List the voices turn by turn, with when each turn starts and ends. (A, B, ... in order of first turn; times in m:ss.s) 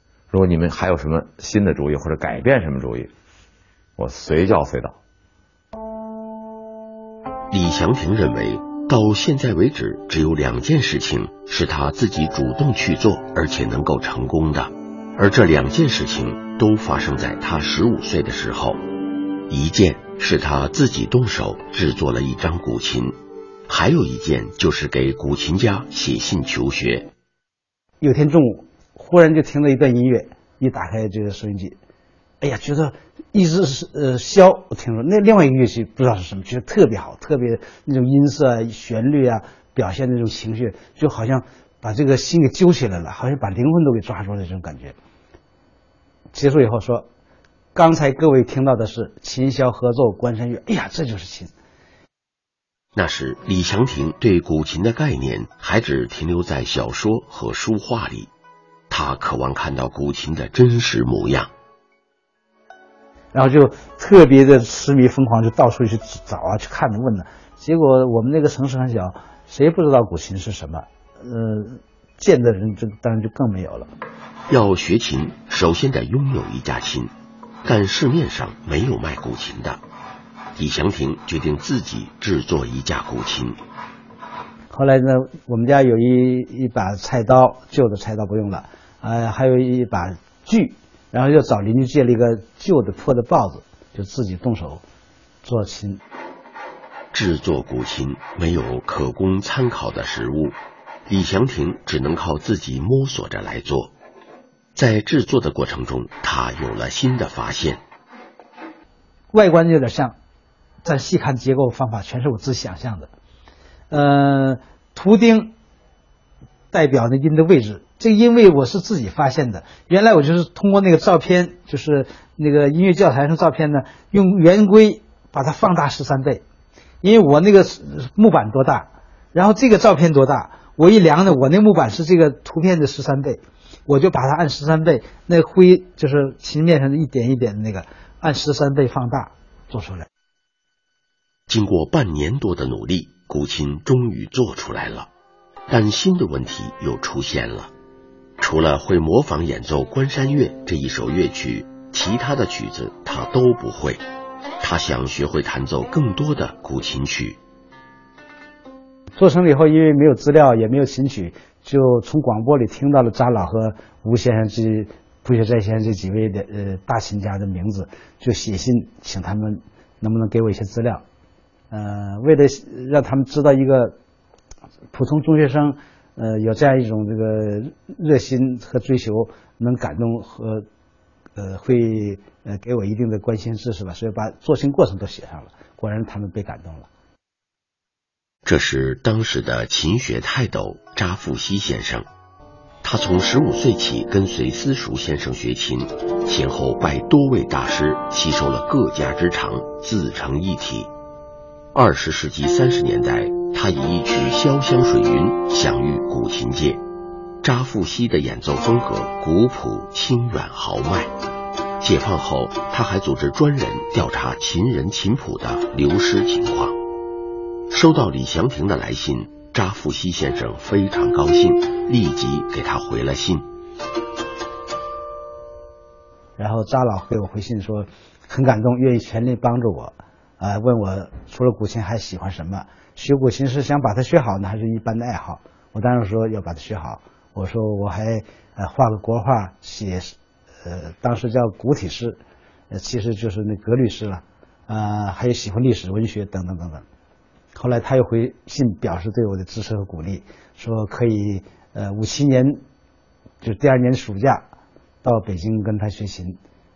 0:00.3-0:03.1 A
0:04.0-0:05.0 A
0:07.5-0:18.8 B
0:19.5-0:23.2 B
0:23.7-0:27.1 B
0:28.0-0:31.8 C
0:32.4-0:45.0 C
0:46.3-0:47.1 C
0:47.8-0:51.5 C
0:53.0-0:58.3 B
0:58.9-1:01.5 B
1:03.3-1:13.9 C
1:14.5-1:17.1 B
1:17.6-1:19.8 B
1:20.6-1:23.6 B
1:24.7-1:34.8 C
1:35.4-1:36.0 C
1:37.1-1:40.6 B
1:41.1-1:43.9 B
1:44.8-1:47.8 B
1:49.3-1:50.2 C
1:50.8-1:53.1 C
1:53.9-1:55.5 C
1:56.7-2:06.4 C
2:07.0-2:20.1 C
2:21.5-2:25.1 B
2:25.7-2:27.7 B
2:28.4-2:34.0 B
2:34.6-2:37.4 B
2:39.2-2:51.0 C
2:51.7-2:54.0 C
2:54.9-3:00.6 C
3:01.4-3:06.9 C
3:08.4-3:12.1 B
3:12.8-3:20.9 B
3:21.7-3:26.8 B
3:27.4-3:31.1 B
3:31.8-3:36.8 B
3:37.7-3:43.5 B
3:46.4-4:02.2 C
4:02.7-4:06.8 C
4:07.6-4:12.6 C
4:13.4-4:14.4 C
4:15.0-4:16.4 C